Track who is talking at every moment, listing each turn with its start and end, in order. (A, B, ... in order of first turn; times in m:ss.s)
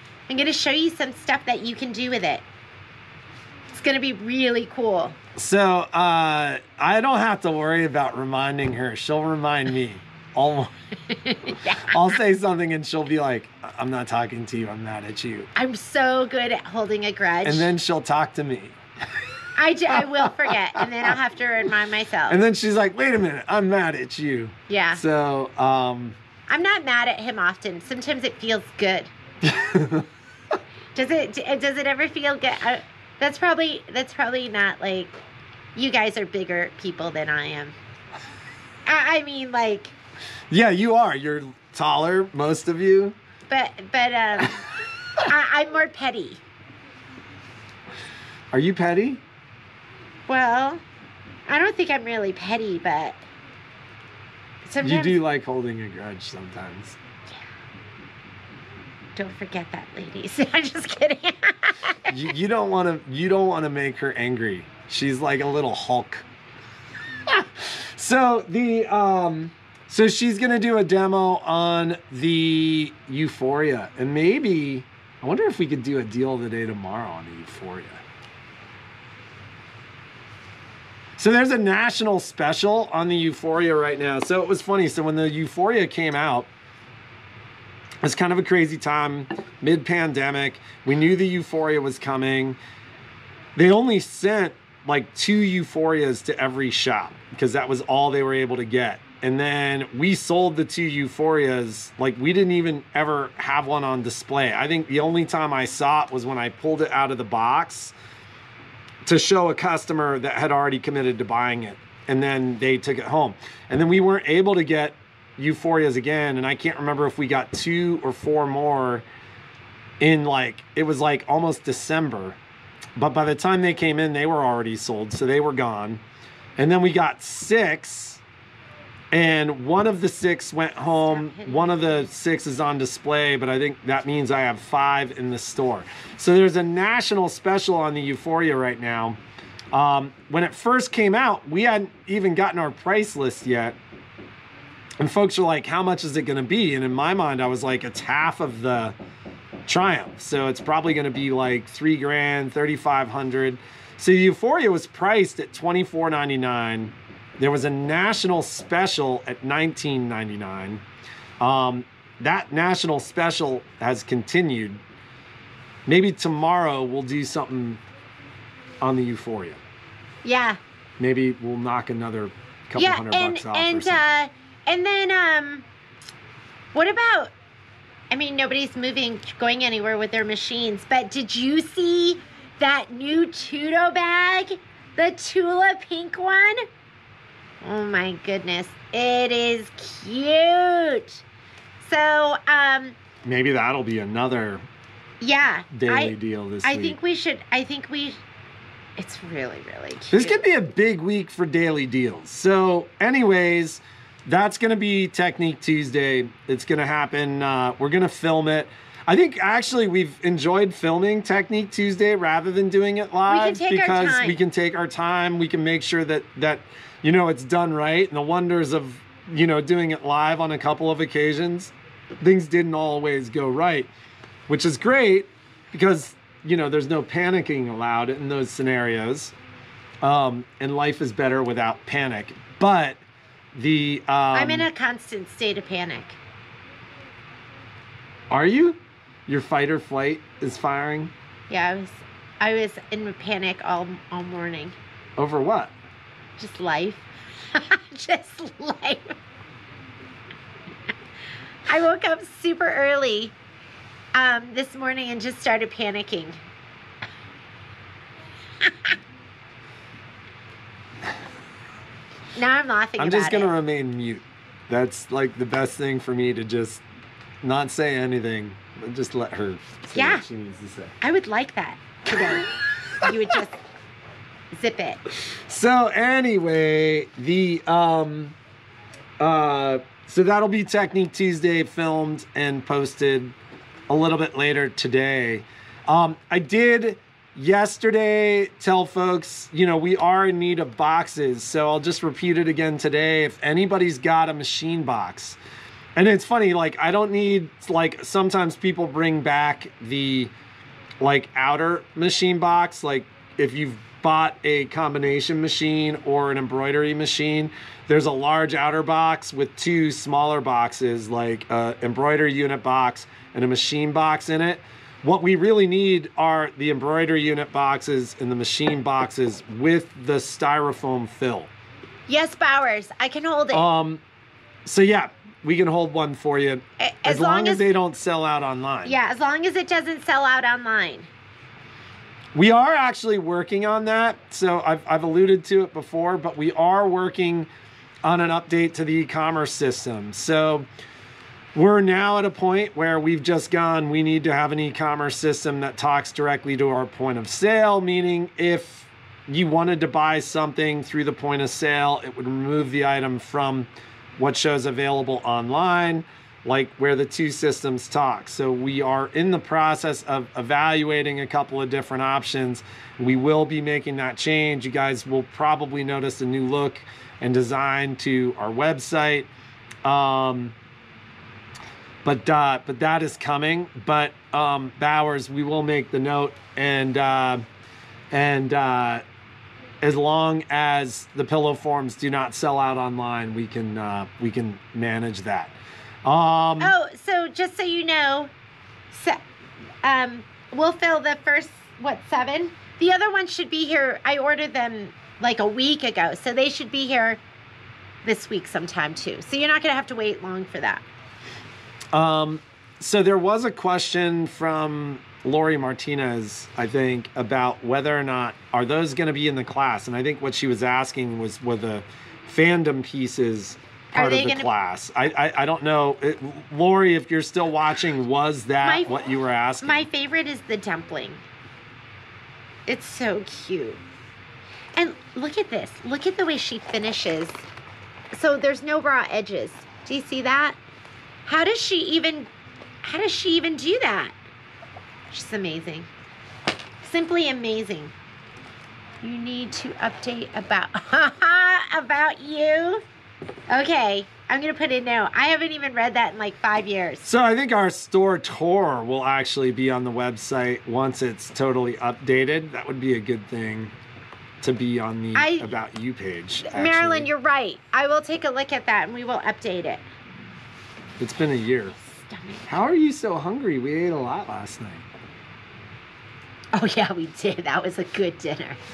0:00.3-0:02.4 A
0:03.7-0:05.2 A
0:05.4-0:10.7 B
0:11.1-0:12.0 A
0:11.8-0:15.5 B
0:15.5-0:17.7 A
0:17.4-0:18.8 B
0:19.6-0:22.4 A
0:19.9-0:21.1 B
0:22.3-0:26.2 B
0:24.7-0:25.0 A
0:26.5-0:29.1 A
0:29.4-0:30.1 B
0:30.9-0:35.1 A
0:35.7-0:37.8 A
0:38.8-0:39.9 A
0:40.5-0:43.2 B
0:43.5-0:44.6 A
0:45.2-0:46.4 A
0:48.5-0:49.2 B
0:50.3-0:50.8 A
0:51.5-0:53.2 A
0:54.6-0:55.2 A
0:54.8-0:57.0 B
0:59.2-1:02.2 A
1:02.1-1:06.2 B
1:07.2-1:18.0 B
1:21.2-1:26.5 B
1:28.0-1:32.6 B
1:33.6-1:47.9 B
1:49.0-1:59.0 B
2:00.0-2:02.4 B
2:03.0-2:06.0 B
2:06.6-2:08.2 B
2:09.1-2:19.2 B
2:10.9-2:12.1 A
2:19.7-2:23.8 B
2:25.0-2:29.0 B
2:29.6-2:40.8 B
2:41.4-2:44.8 B
2:45.8-2:47.8 B
2:48.8-2:49.6 B
2:50.2-2:50.6 A
2:51.0-2:54.0 B
2:52.8-2:55.6 A
2:56.7-2:57.3 A
2:58.1-3:06.6 A
3:07.6-3:11.2 A
3:11.8-3:13.0 A
3:13.2-3:14.6 B
3:15.2-3:18.2 A
3:15.7-3:17.0 B
3:19.0-3:20.4 A
3:20.1-3:43.9 B
3:33.3-3:34.4 A
3:44.5-3:49.3 B
3:50.0-3:53.0 B
3:53.5-3:54.7 B
3:54.3-3:56.2 A
3:58.3-4:01.1 B
4:01.5-4:04.7 A
4:05.2-4:05.7 B
4:06.4-4:09.2 A
4:11.7-4:13.3 A
4:14.1-4:16.4 A
4:18.6-4:19.0 A
4:22.4-4:23.5 A
4:23.0-4:26.8 B
4:27.4-4:31.0 B
4:29.9-4:30.2 A
4:31.0-4:33.6 A
4:34.5-4:35.0 A
4:35.5-4:38.4 B
4:39.2-4:43.4 B
4:43.9-4:55.4 B
4:56.0-5:00.3 B
5:01.0-5:21.5 B
5:22.1-5:23.6 A
5:23.5-5:24.0 B
5:24.6-5:29.0 B
5:26.8-5:27.6 A
5:28.8-5:31.1 A
5:32.3-5:37.5 B
5:38.0-5:40.7 B
5:41.5-6:09.3 B
6:09.8-6:10.5 B
6:12.0-6:17.4 B
6:18.1-6:19.0 B
6:19.8-6:26.8 B
6:26.6-6:28.3 A
6:28.9-6:29.2 A
6:29.8-6:37.2 A
6:38.0-6:40.8 A
6:41.9-6:59.9 B
6:53.9-6:54.5 A
6:58.6-6:58.9 A
6:59.6-7:01.2 A
7:02.7-7:03.8 A
7:04.8-7:07.4 A
7:08.1-7:10.6 A
7:11.2-7:12.3 A
7:12.8-7:14.1 A
7:15.1-7:15.9 A
7:16.8-7:17.9 A
7:19.0-7:22.8 A
7:23.5-7:27.1 A
7:27.0-7:33.7 B
7:34.4-7:37.1 B
7:35.1-7:35.5 A
7:36.4-7:39.8 A
7:41.0-7:41.8 B
7:41.8-7:42.6 A
7:42.4-7:44.8 B
7:46.5-7:48.6 A